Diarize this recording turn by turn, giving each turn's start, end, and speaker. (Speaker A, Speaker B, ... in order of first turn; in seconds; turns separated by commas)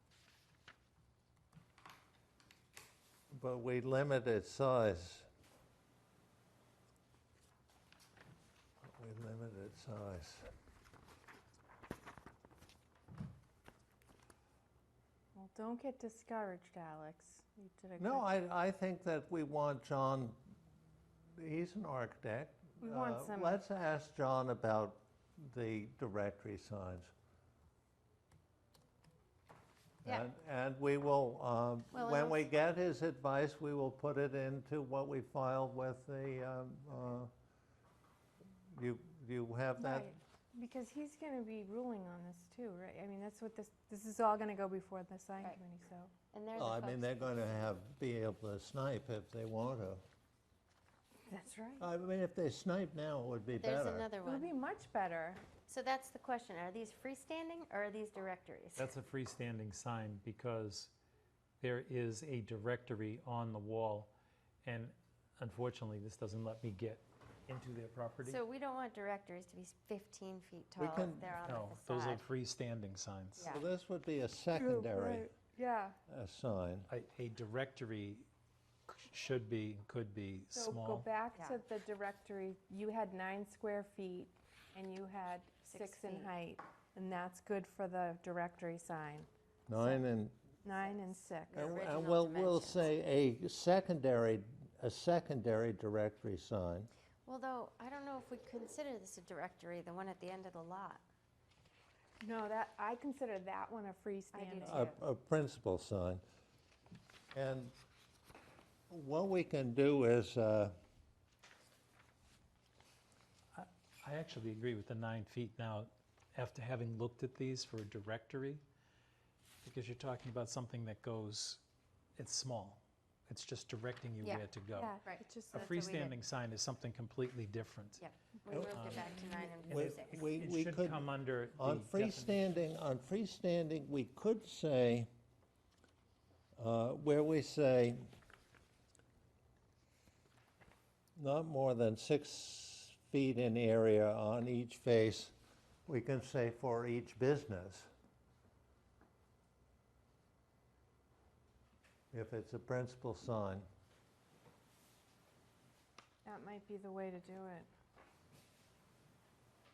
Speaker A: 3.3-5.3, Speaker A: 8.8-10.5, Speaker B: 15.3-18.3, Speaker A: 18.0-20.4, Speaker A: 21.3-27.1, Speaker B: 22.8-23.6, Speaker A: 30.0-37.3, Speaker C: 31.9-32.5, Speaker A: 38.7-40.1, Speaker B: 39.8-46.1, Speaker C: 46.3-47.7, Speaker A: 46.5-50.0, Speaker B: 51.2-51.9, Speaker A: 51.8-54.1, Speaker C: 53.6-54.5, Speaker B: 54.2-55.4, Speaker C: 55.7-58.9, Speaker D: 58.8-60.9, Speaker D: 61.6-64.1, Speaker D: 64.6-68.4, Speaker C: 68.2-72.2, Speaker A: 70.8-71.3, Speaker D: 71.4-73.5, Speaker C: 73.4-73.6, Speaker A: 73.4-75.3, Speaker B: 74.5-76.0, Speaker A: 76.1-76.9, Speaker D: 76.9-78.3, Speaker D: 78.9-81.1, Speaker B: 80.5-90.0, Speaker C: 85.6-86.3, Speaker A: 89.7-90.3, Speaker B: 90.6-91.7, Speaker C: 91.5-92.9, Speaker A: 91.5-96.9, Speaker C: 97.2-101.0, Speaker B: 102.2-104.9, Speaker C: 104.3-105.0, Speaker A: 104.6-106.2, Speaker A: 107.3-107.7, Speaker A: 108.9-110.8, Speaker D: 113.5-118.6, Speaker D: 119.6-121.6, Speaker D: 122.2-128.0, Speaker B: 124.7-125.8, Speaker C: 125.0-126.2, Speaker C: 128.0-130.3, Speaker A: 128.5-128.9, Speaker D: 128.7-132.5, Speaker A: 129.7-135.1, Speaker A: 136.6-138.1, Speaker A: 141.2-145.3, Speaker A: 145.9-147.9, Speaker A: 152.1-153.7, Speaker B: 156.2-157.7